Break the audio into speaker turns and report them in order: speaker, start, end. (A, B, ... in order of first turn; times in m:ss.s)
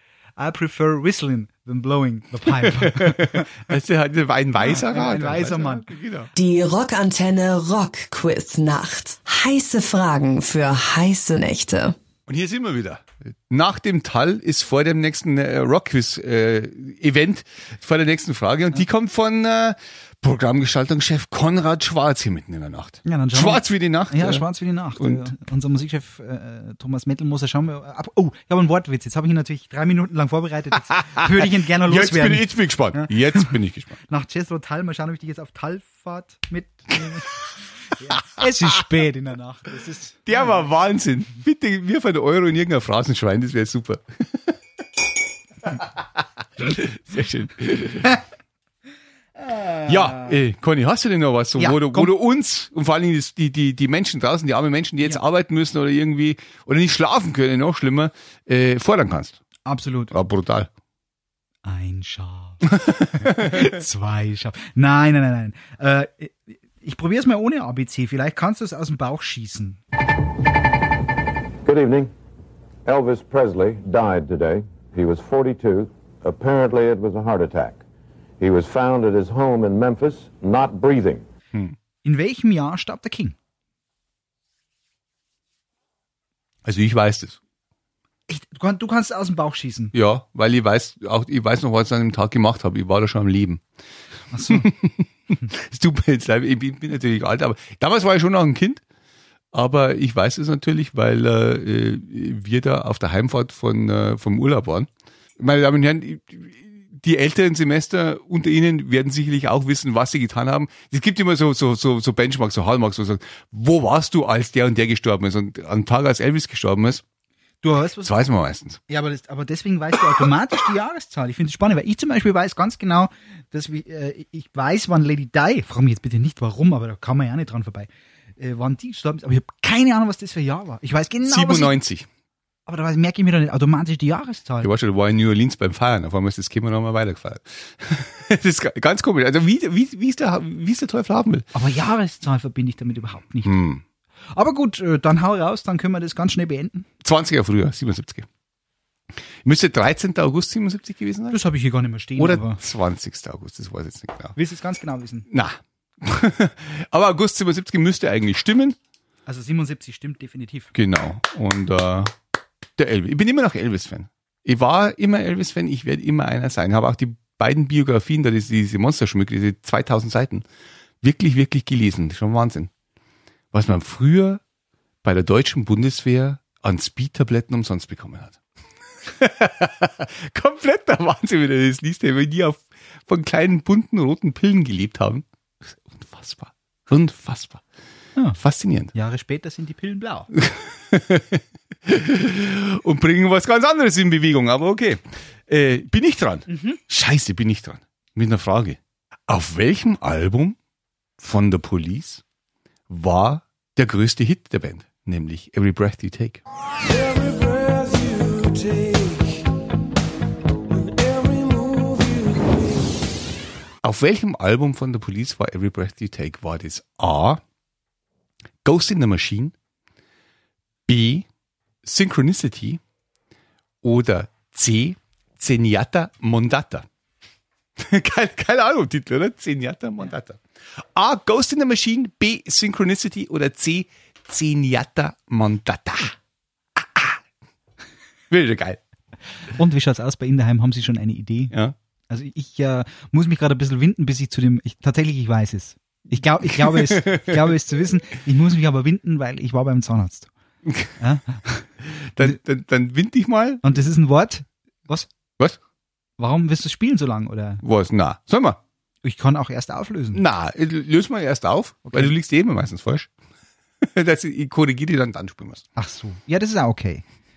0:00.4-0:03.5 A
0:02.5-0:06.3 B
0:04.6-0:05.8 A
0:06.4-0:12.0 C
0:12.3-0:24.5 B
0:23.0-0:33.5 A
0:25.0-0:25.3 B
0:31.2-0:34.0 B
0:34.1-0:37.3 A
0:37.9-0:40.6 A
0:40.3-0:44.6 B
0:45.7-0:48.2 B
0:49.5-0:50.3 A
0:49.8-0:59.4 B
0:51.6-0:52.1 A
0:59.6-1:00.1 A
1:00.1-1:00.7 B
1:01.6-1:09.8 A
1:02.8-1:03.7 B
1:11.6-1:12.1 D
1:12.9-1:17.8 D
1:18.4-1:21.2 D
1:22.0-1:23.4 A
1:26.6-1:27.4 B
1:28.3-1:29.9 A
1:29.9-1:33.6 B
1:34.3-1:34.7 A
1:34.5-1:38.8 B
1:39.5-1:57.0 B
1:57.6-1:58.1 A
1:58.0-1:58.8 B
1:58.9-2:11.8 A
2:11.3-2:12.1 B
2:12.7-2:14.7 A
2:14.6-2:21.5 B
2:21.5-2:23.6 A
2:23.4-2:23.8 B
2:24.3-2:26.9 A
2:27.0-2:28.3 B
2:29.4-2:31.4 B
2:31.3-2:32.6 A
2:32.2-2:34.4 B
2:34.4-2:35.3 A
2:35.3-2:38.8 B
2:39.3-2:40.7 A
2:40.7-2:42.2 B
2:42.8-2:50.4 B
2:51.0-2:52.7 B
2:53.5-2:54.4 B
2:55.0-2:58.4 B
2:59.0-3:07.6 B
3:08.4-3:08.9 B
3:08.9-3:10.3 A
3:10.3-3:20.6 B
3:16.5-3:16.8 A
3:21.2-3:22.2 B
3:22.9-3:26.4 B
3:26.9-3:29.4 E
3:30.8-3:32.8 E
3:33.8-3:37.4 B
3:38.6-3:39.5 B
3:40.9-3:41.3 B
3:41.8-3:42.8 B
3:43.8-3:46.9 B
3:47.8-3:56.2 B
3:56.8-3:57.2 B
3:58.3-3:58.8 B
3:59.5-4:01.5 A
4:02.1-4:10.3 A
4:06.6-4:07.5 B
4:10.6-4:11.0 B
4:11.0-4:12.4 A
4:11.8-4:13.6 B
4:13.6-4:15.1 A
4:16.2-4:17.6 A
4:17.6-4:18.6 B
4:19.0-4:20.2 A
4:20.1-4:23.1 B
4:21.9-4:22.1 A
4:23.8-4:25.6 B
4:25.8-4:27.0 A